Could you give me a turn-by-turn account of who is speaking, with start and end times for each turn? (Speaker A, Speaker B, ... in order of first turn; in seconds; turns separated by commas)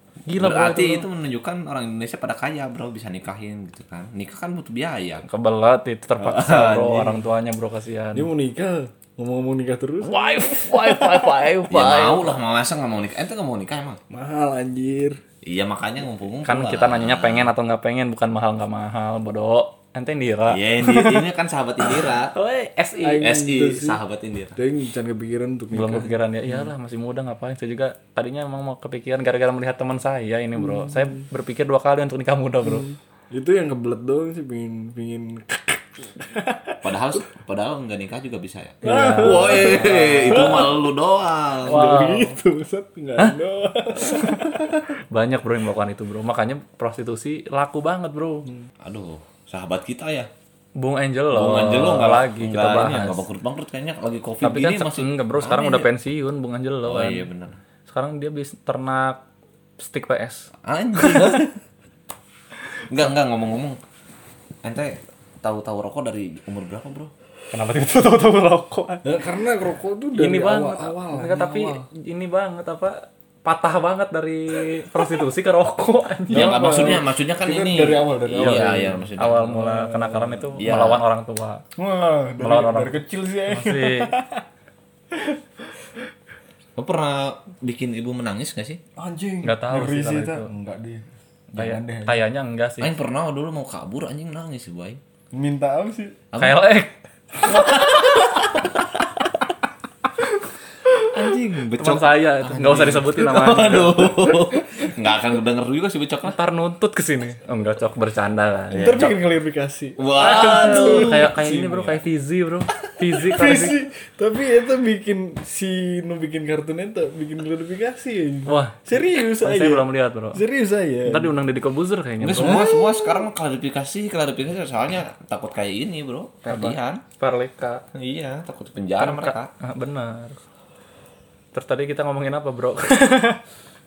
Speaker A: 0.2-1.1, Speaker B: 0.4-5.2, Speaker A: 5.2-8.3, Speaker B: 6.2-7.2, Speaker C: 8.2-11.2, Speaker A: 10.0-12.4, Speaker B: 11.7-14.0, Speaker C: 14.1-15.2, Speaker B: 15.4-17.5, Speaker A: 16.4-21.2, Speaker B: 20.5-22.3, Speaker A: 21.9-23.3, Speaker C: 23.0-24.0, Speaker B: 23.2-24.6, Speaker C: 24.6-26.6, Speaker A: 25.7-32.9, Speaker C: 30.6-31.2, Speaker C: 32.6-37.0, Speaker B: 36.8-41.9, Speaker A: 38.8-40.4, Speaker C: 38.8-40.9, Speaker C: 41.6-44.8, Speaker A: 41.7-42.4, Speaker A: 44.0-48.5, Speaker B: 48.8-50.3, Speaker A: 50.8-53.2, Speaker B: 51.3-55.9, Speaker A: 54.4-57.3, Speaker B: 56.9-57.6, Speaker A: 57.9-59.2, Speaker A: 59.8-61.4, Speaker B: 60.6-61.6, Speaker B: 62.9-63.8, Speaker B: 64.6-67.1, Speaker A: 67.5-69.1, Speaker C: 69.0-71.9, Speaker A: 70.2-76.7, Speaker C: 76.3-80.6, Speaker B: 76.3-79.4, Speaker A: 78.3-81.6, Speaker B: 80.6-81.0, Speaker C: 81.8-84.4, Speaker A: 82.4-84.1, Speaker B: 86.8-88.8, Speaker C: 89.0-92.2, Speaker A: 89.4-90.5, Speaker A: 91.6-92.9, Speaker B: 92.8-95.0, Speaker C: 95.3-96.2, Speaker B: 96.3-96.6, Speaker A: 96.4-96.9, Speaker B: 97.4-99.2, Speaker A: 97.4-98.4, Speaker B: 101.1-106.4, Speaker A: 101.8-104.1, Speaker C: 104.2-104.9, Speaker A: 106.2-109.2, Speaker B: 108.7-109.2, Speaker C: 108.7-111.9, Speaker B: 110.0-111.4, Speaker A: 110.2-113.8, Speaker C: 113.2-121.3, Speaker A: 118.5-120.4, Speaker A: 121.1-122.7, Speaker B: 122.2-127.0, Speaker C: 122.3-123.2, Speaker A: 126.5-127.8, Speaker B: 127.9-129.5, Speaker A: 129.0-130.4, Speaker A: 131.5-133.4